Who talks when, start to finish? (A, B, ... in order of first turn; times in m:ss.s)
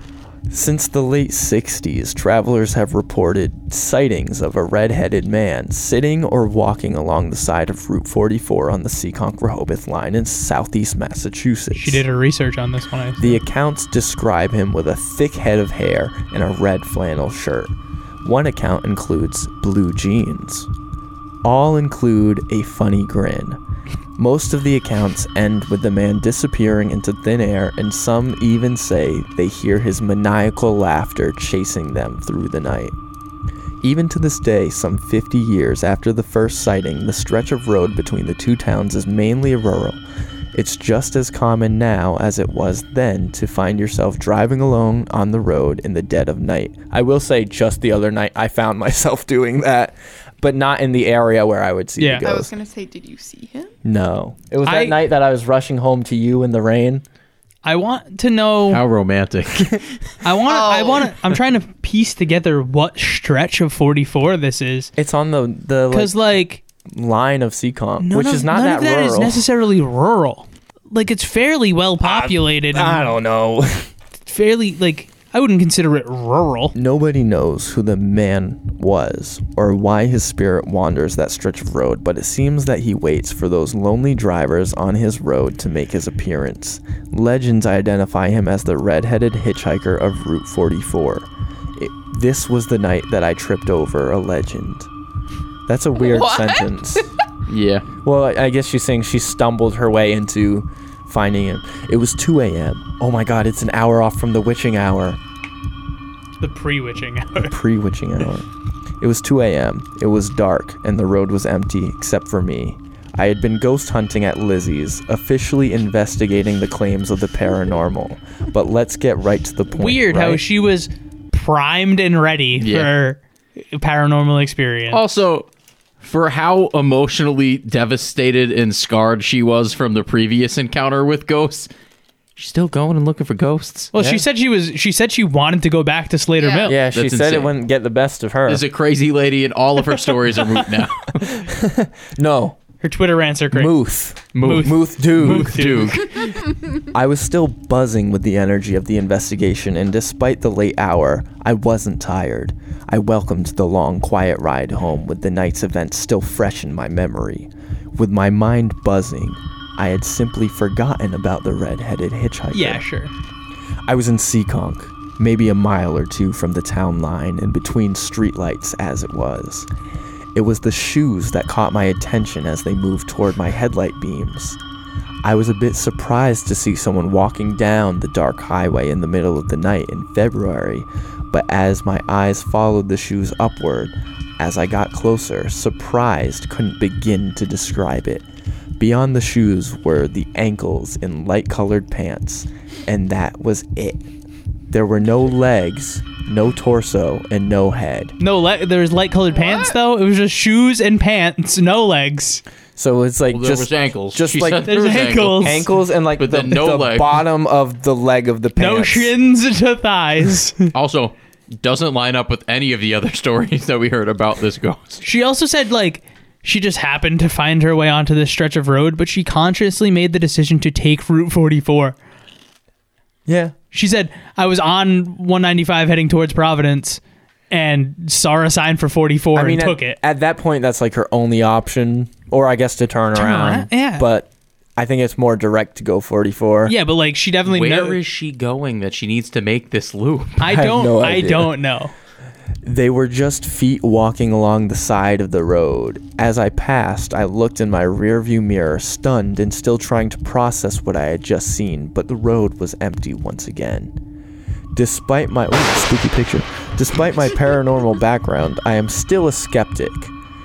0:00.5-0:12.0 A
0:11.7-0:13.4 B
0:13.2-0:20.7 A
0:21.4-0:23.6 A
0:24.2-0:32.9 A
0:33.8-0:40.0 A
0:40.5-0:52.5 A
0:52.0-0:52.3 B
0:52.2-0:53.7 C
0:53.8-0:57.0 A
0:54.6-0:55.0 B
0:57.6-0:58.8 B
0:58.7-0:59.9 D
1:00.2-1:04.9 B
1:00.4-1:01.1 C
1:05.0-1:06.2 A
1:05.9-1:06.6 B
1:06.9-1:09.4 A
1:08.0-1:13.1 B
1:12.0-1:13.9 A
1:14.2-1:16.7 B
1:16.7-1:34.9 A
1:35.7-1:37.1 A
1:36.0-1:36.7 C
1:37.5-1:37.9 D
1:38.0-1:45.2 A
1:46.4-1:47.5 B
1:47.5-1:48.5 A
1:49.0-2:00.4 A
1:59.7-2:05.0 B
2:02.6-2:02.9 D
2:04.9-2:05.5 D
2:06.0-2:11.7 D
2:12.4-2:13.9 D
2:13.9-2:16.8 B
2:13.9-2:14.2 A
2:16.4-2:16.8 C
2:16.6-2:18.6 A
2:16.9-2:17.5 D
2:18.5-2:21.5 D
2:20.4-2:20.6 B
2:21.3-2:22.6 A
2:22.8-2:23.7 B
2:23.5-2:25.7 A
2:24.3-2:26.4 D
2:24.4-2:26.2 B
2:26.9-2:42.8 A
2:42.5-2:43.1 B
2:43.8-2:49.7 A
2:50.3-2:54.6 A
2:55.2-3:08.2 A
3:08.8-3:14.0 A
3:14.7-3:18.1 A
3:18.2-3:22.4 B
3:19.4-3:19.7 C
3:22.8-3:24.7 A
3:23.3-3:27.2 D
3:24.7-3:25.7 B
3:25.4-3:29.1 A
3:28.6-3:30.7 B
3:30.7-3:35.0 D
3:35.0-3:42.0 B
3:43.2-3:43.5 A
3:43.7-3:50.0 B
3:49.3-3:56.7 A
3:53.1-3:54.0 B
3:56.7-3:58.0 B
3:57.4-4:00.4 D
4:00.4-4:01.9 B
4:00.4-4:01.5 A
4:02.6-4:13.9 A
4:14.7-4:20.1 A